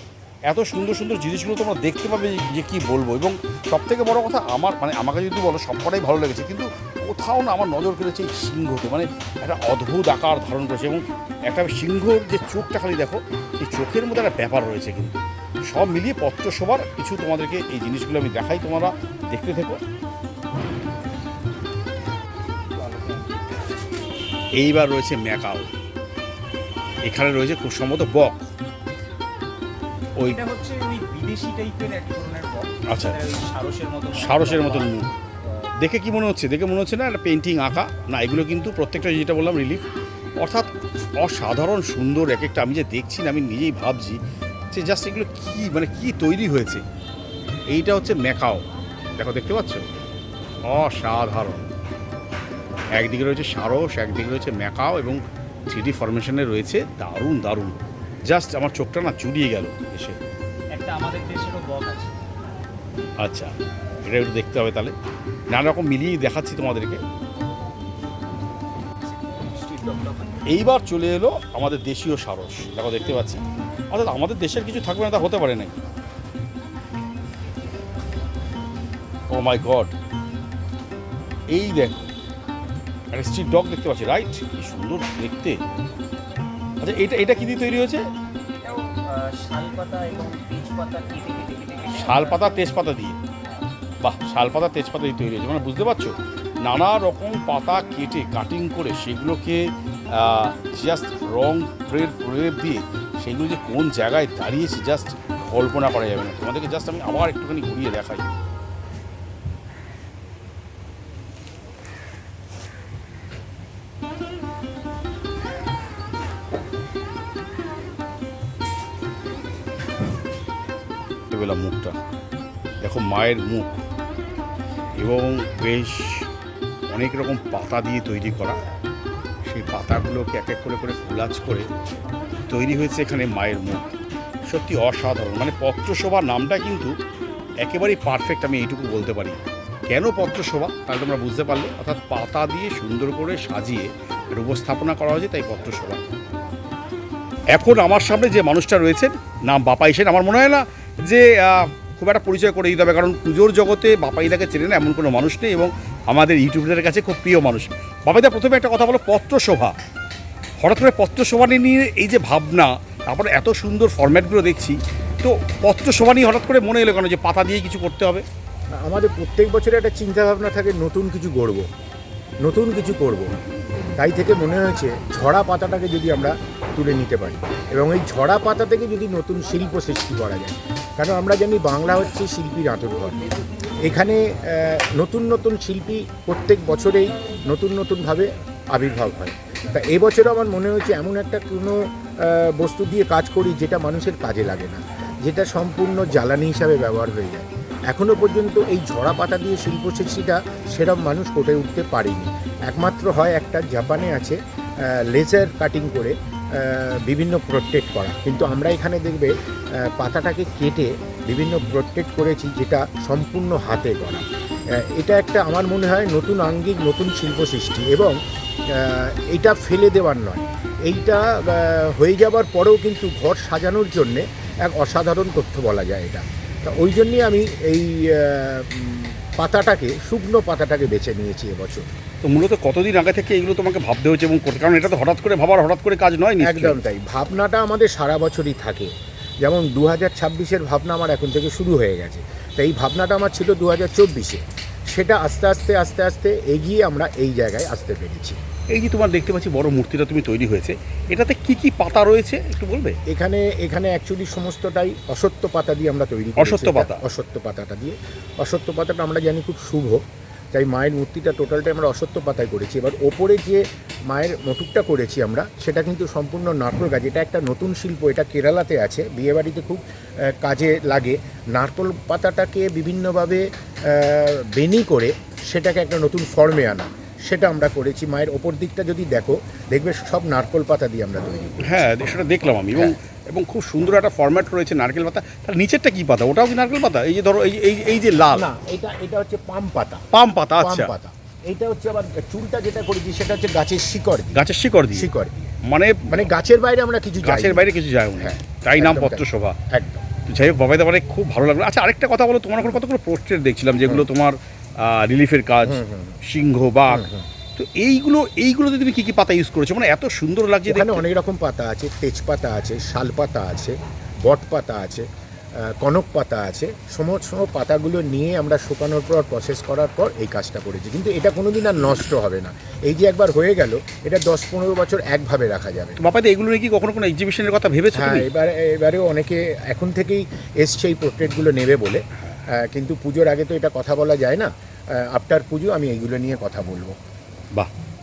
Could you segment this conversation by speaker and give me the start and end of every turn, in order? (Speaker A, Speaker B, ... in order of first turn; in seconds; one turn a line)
Speaker A: 0.5-19.8
Speaker A: 24.6-25.7
Speaker A: 27.0-28.5
Speaker B: 30.2-35.0
Speaker A: 32.9-33.2
Speaker A: 34.1-35.1
Speaker A: 35.8-39.9
Speaker A: 40.4-44.2
Speaker A: 44.7-46.8
Speaker A: 47.7-48.6
Speaker A: 49.2-49.8
Speaker A: 50.7-51.7
Speaker A: 52.9-57.7
Speaker A: 58.2-60.2
Speaker B: 60.7-62.1
Speaker A: 63.2-63.5
Speaker A: 64.0-64.9
Speaker A: 65.5-67.0
Speaker B: 69.1-70.5
Speaker A: 70.5-75.8
Speaker A: 79.3-79.9
Speaker A: 81.5-82.1
Speaker A: 83.1-85.6
Speaker A: 86.8-88.0
Speaker B: 88.6-92.6
Speaker A: 91.9-93.2
Speaker A: 94.0-108.2
Speaker A: 121.3-122.0
Speaker A: 122.8-123.8
Speaker A: 125.0-126.3
Speaker A: 126.9-128.6
Speaker A: 129.5-131.7
Speaker A: 132.5-134.0
Speaker A: 134.5-136.9
Speaker A: 137.6-146.0
Speaker A: 147.5-159.7
Speaker A: 160.6-168.2
Speaker C: 168.8-171.7
Speaker C: 172.4-173.3
Speaker C: 174.0-183.2
Speaker C: 183.8-209.3
Speaker C: 209.9-214.2
Speaker C: 214.9-218.2
Speaker C: 218.7-231.9
Speaker A: 232.2-236.8
Speaker C: 236.4-248.4
Speaker A: 248.7-253.0
Speaker C: 253.1-260.0
Speaker A: 256.4-257.0
Speaker C: 260.5-281.9
Speaker A: 281.6-288.5
Speaker C: 282.7-282.9
Speaker C: 288.3-290.0
Speaker A: 290.1-290.9
Speaker C: 290.6-295.5
Speaker A: 294.3-295.1
Speaker A: 295.6-296.3
Speaker C: 296.1-300.0
Speaker A: 297.2-299.6
Speaker A: 300.2-311.0
Speaker C: 305.6-306.2
Speaker C: 306.9-307.3
Speaker C: 310.6-313.7
Speaker C: 314.2-315.0
Speaker C: 315.6-326.0
Speaker A: 326.0-328.3
Speaker C: 327.9-332.0
Speaker C: 332.6-336.9